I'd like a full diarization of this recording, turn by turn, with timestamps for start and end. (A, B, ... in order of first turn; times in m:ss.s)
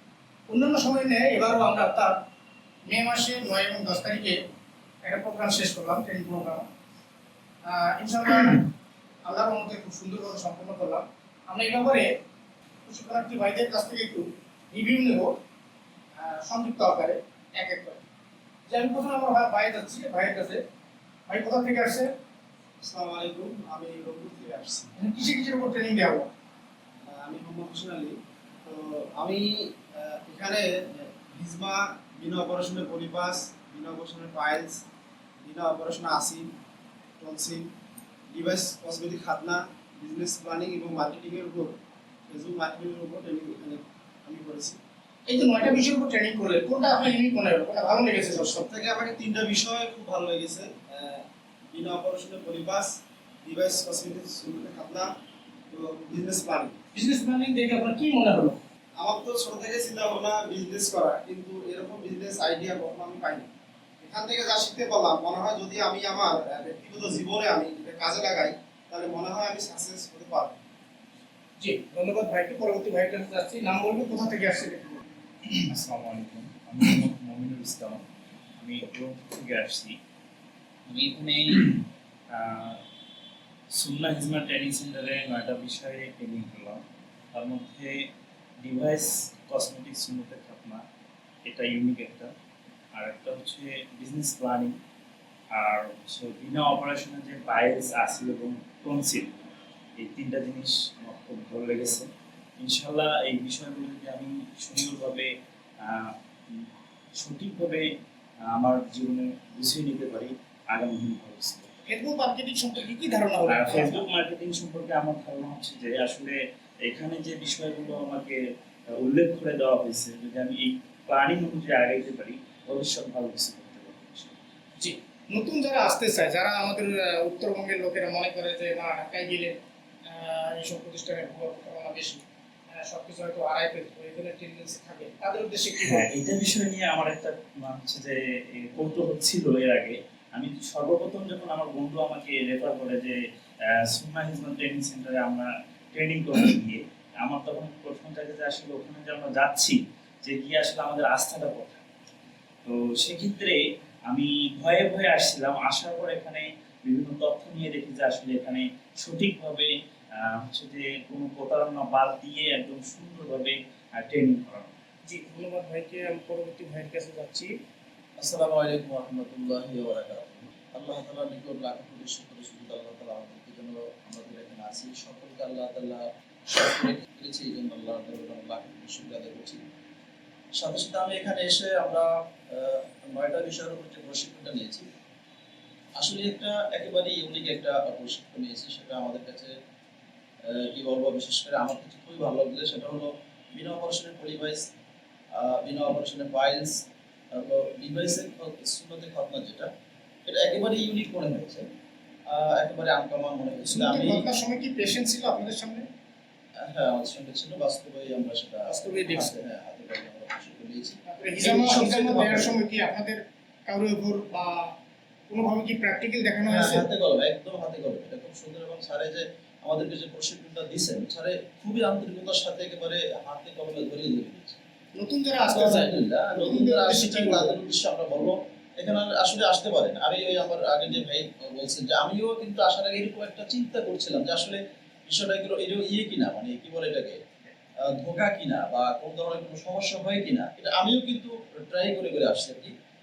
0:00.5-0:02.2 A
0:02.9-0:04.4 A
0:05.0-0:06.7 A
0:07.6-0:08.7 A
0:09.2-0:12.1 A
0:12.9-0:15.3 A
0:16.2-0:18.0 A
0:18.7-0:20.6 A
0:21.3-0:22.1 A
0:22.8-0:24.9 B
0:25.0-0:26.3 A
0:27.1-0:34.8 B
0:35.4-0:36.5 B
0:37.2-0:37.7 B
0:38.3-0:41.8 B
0:42.3-0:44.8 B
0:45.3-0:48.7 A
0:48.6-0:55.1 B
0:55.7-0:56.8 B
0:57.0-0:58.6 A
0:59.0-1:03.5 B
1:04.0-1:10.6 B
1:11.6-1:15.0 A
1:15.7-1:18.0 C
1:18.6-1:20.0 C
1:20.9-1:22.8 C
1:23.7-1:26.8 C
1:27.3-1:28.1 C
1:28.6-1:30.8 C
1:31.4-1:32.3 C
1:33.0-1:34.8 C
1:35.5-1:39.4 C
1:40.0-1:42.1 C
1:42.6-1:47.9 C
1:48.4-1:51.7 C
1:51.9-1:54.0 A
1:53.5-1:58.4 C
1:58.9-2:04.4 C
2:04.8-2:16.1 A
2:15.8-2:23.2 C
2:23.7-2:31.8 C
2:32.6-2:44.7 C
2:45.1-2:47.6 A
2:48.2-2:59.6 D
3:00.6-3:04.9 D
3:06.0-3:09.5 D
3:10.4-3:14.7 D
3:15.3-3:19.7 D
3:20.3-3:21.7 D
3:22.3-3:24.2 D
3:23.7-3:25.9 A
3:26.6-3:32.5 D
3:28.7-3:29.3 A
3:31.1-3:34.8 A
3:35.3-3:36.8 A
3:36.5-3:44.6 D
3:45.0-3:47.5 A
3:45.5-3:57.2 D
3:57.8-4:02.7 D